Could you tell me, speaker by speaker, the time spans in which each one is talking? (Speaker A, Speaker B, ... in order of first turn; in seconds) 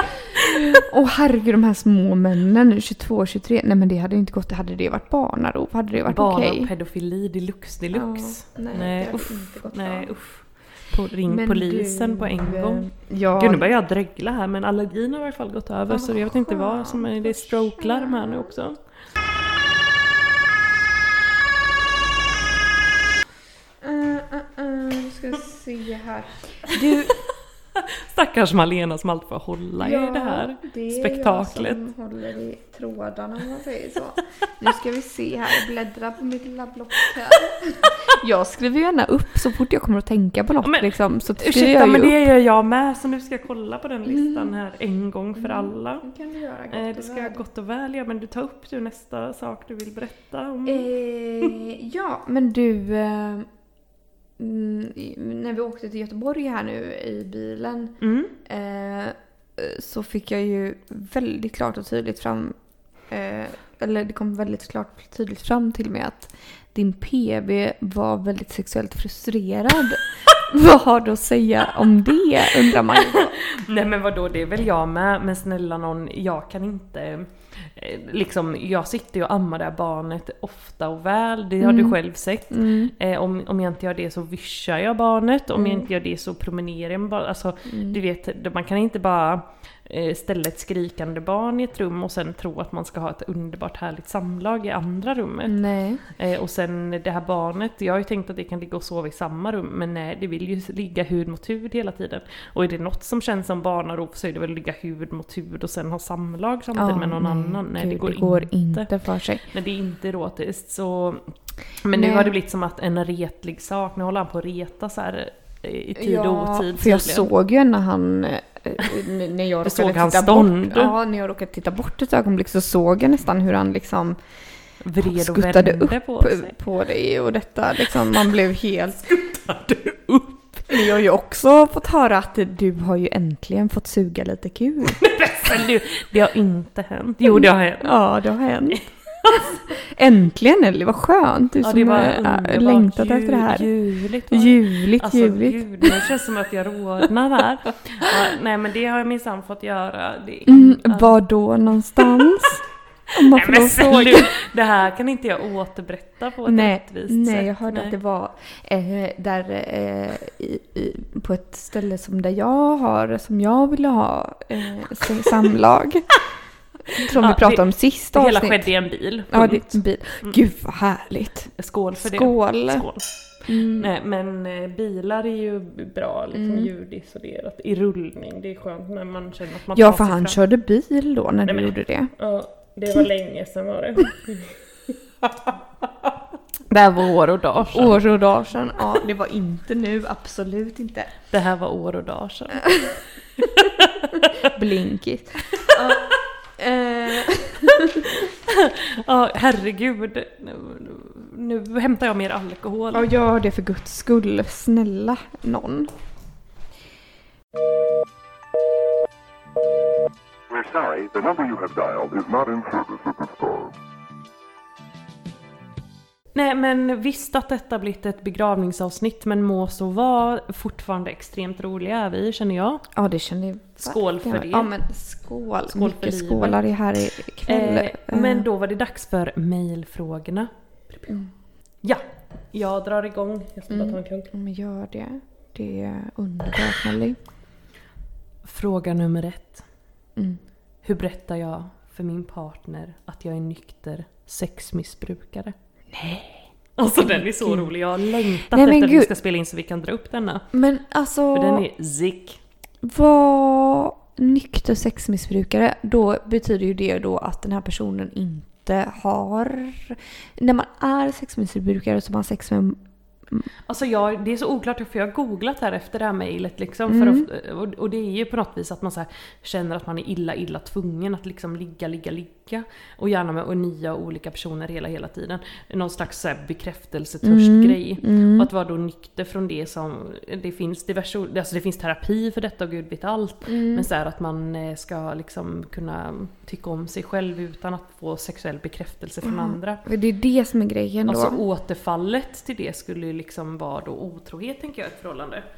Speaker A: 0.3-6.7, 7.9-10.1, 11.3-13.7, 15.9-18.5, 23.8-27.2, 29.8-42.2, 44.0-44.5, 45.4-47.4, 50.6-53.5, 54.4-62.5, 63.1-73.3, 81.6-82.0, 82.5-82.9, 85.5-85.9, 87.7-88.0, 95.5-96.0, 106.7-109.4, 111.9-112.3, 116.0-124.2, 125.0-129.5, 130.5-135.0, 137.2-143.7, 144.3-146.0, 150.5-154.3, 156.4-166.1, 166.9-168.7, 169.3-172.8, 173.4-173.9, 176.3-176.7, 179.7-182.1, 187.7-191.1, 192.6-192.9, 194.4-198.1, 202.9-205.9, 222.9-228.4, 233.7-237.2, 245.9-246.4, 247.0-247.7, 248.5-249.1, 250.5-251.7, 252.8-263.5, 266.9-267.3, 277.2-278.5, 283.4-283.9, 289.2-291.4
Speaker B: 6.0-18.8, 27.8-31.8, 40.6-46.0, 46.7-50.9, 58.0-58.3, 73.0-108.9, 109.5-117.3, 119.6-120.9, 124.8-126.5, 129.2-130.4, 134.9-138.0, 138.7-139.5, 141.6-151.2, 152.0-152.3, 153.1-157.9, 167.0-170.3, 171.6-173.0, 173.8-180.4, 181.4-184.6, 186.7-188.0, 191.3-192.8, 193.4-194.5, 195.6-196.0, 198.0-203.1, 216.3-222.8, 223.8-224.7, 225.7-226.6, 227.4-231.1, 231.8-234.3, 238.4-239.6, 240.8-245.5, 246.8-250.4, 251.3-252.4, 263.7-289.8, 291.1-295.4
Speaker C: 210.5-213.7